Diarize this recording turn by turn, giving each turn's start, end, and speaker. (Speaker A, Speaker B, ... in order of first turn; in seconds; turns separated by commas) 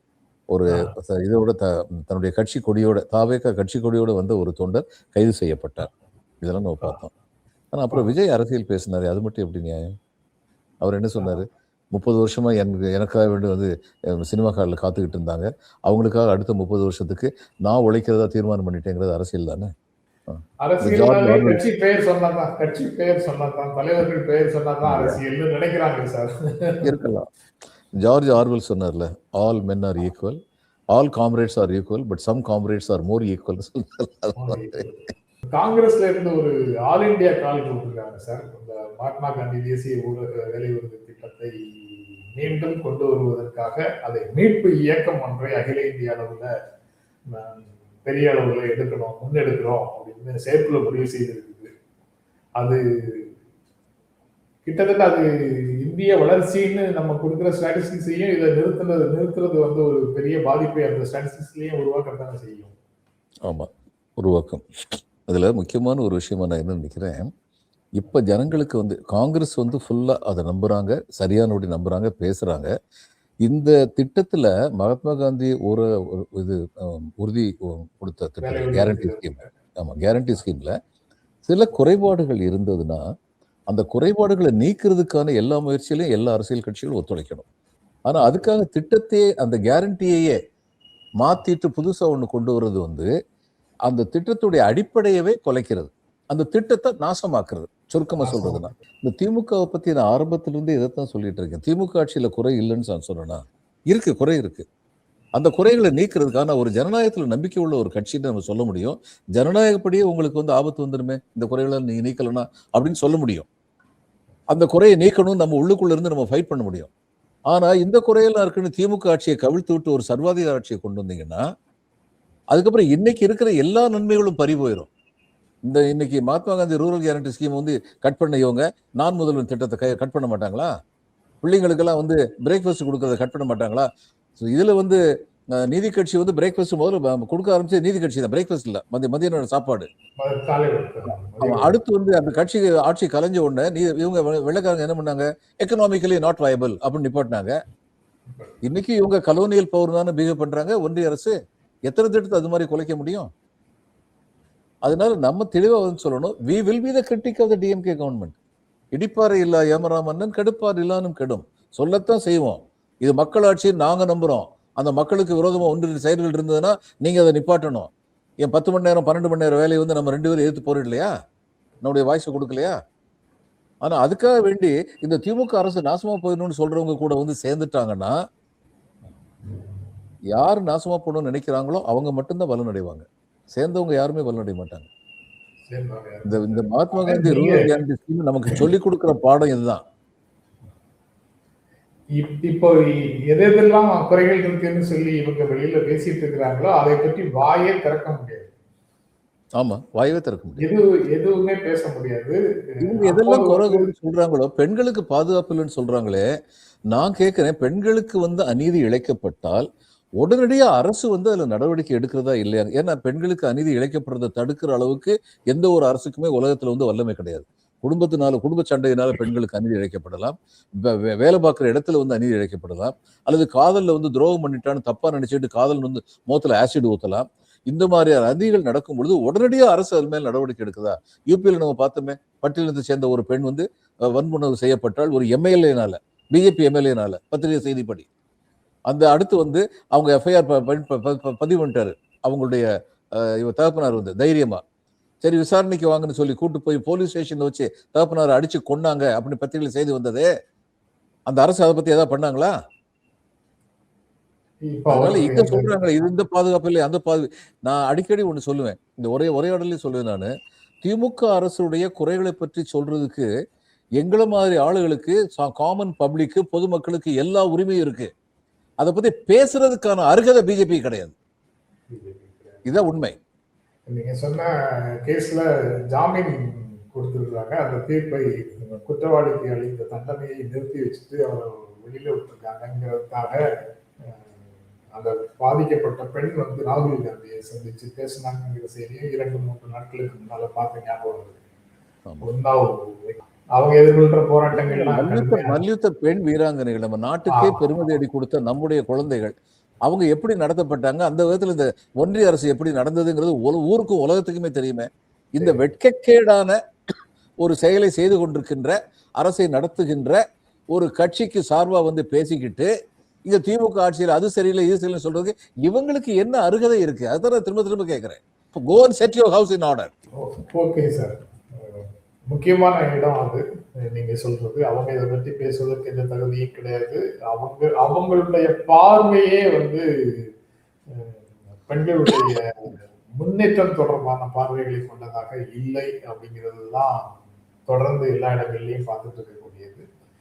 Speaker A: 0.5-5.9, Speaker A: 6.4-7.1, Speaker A: 7.7-9.9, Speaker A: 10.8-19.7, Speaker A: 20.3-21.6, Speaker B: 20.6-26.9, Speaker A: 24.8-25.2, Speaker A: 26.8-27.3, Speaker A: 28.0-30.4, Speaker A: 30.9-34.8, Speaker B: 34.4-46.5, Speaker B: 47.3-51.7, Speaker B: 52.6-53.3, Speaker B: 54.6-62.8, Speaker A: 64.2-64.6, Speaker A: 65.3-67.2, Speaker A: 68.0-72.7, Speaker A: 73.4-80.7, Speaker B: 78.4-79.5, Speaker A: 81.5-83.0, Speaker A: 83.7-87.5, Speaker A: 88.1-90.3, Speaker B: 88.2-88.5, Speaker A: 91.2-93.1, Speaker A: 93.9-104.7, Speaker B: 98.2-98.8, Speaker A: 105.3-113.5, Speaker A: 114.5-116.9, Speaker A: 117.5-121.4, Speaker A: 122.5-124.9, Speaker A: 125.7-130.7, Speaker A: 131.4-133.9, Speaker A: 134.4-135.0, Speaker A: 135.5-139.9, Speaker B: 140.2-141.8, Speaker A: 141.4-147.5, Speaker A: 148.6-151.3, Speaker A: 151.9-153.3, Speaker A: 154.8-158.3, Speaker A: 158.9-167.9, Speaker A: 168.4-171.1, Speaker A: 171.8-172.7, Speaker A: 173.8-178.1, Speaker A: 180.3-184.9, Speaker B: 185.7-187.8, Speaker A: 186.2-189.8, Speaker B: 192.2-198.5, Speaker A: 199.6-200.7, Speaker B: 200.6-203.9, Speaker A: 202.8-206.2, Speaker A: 206.9-209.7, Speaker A: 210.2-238.1, Speaker A: 238.9-244.6, Speaker A: 245.2-250.3, Speaker A: 251.3-252.5, Speaker B: 254.6-255.9, Speaker A: 254.9-260.3, Speaker A: 260.8-263.3, Speaker A: 264.0-268.1, Speaker A: 268.8-271.1, Speaker B: 271.9-272.6, Speaker A: 272.6-273.1, Speaker B: 273.9-283.4, Speaker B: 284.1-291.4, Speaker B: 292.2-295.6, Speaker A: 294.6-299.3, Speaker B: 297.3-297.8, Speaker A: 299.8-306.6, Speaker B: 305.4-305.7, Speaker A: 307.4-310.2, Speaker A: 310.7-312.7, Speaker A: 313.3-319.9, Speaker B: 320.2-330.3, Speaker B: 330.9-337.1, Speaker B: 337.7-339.9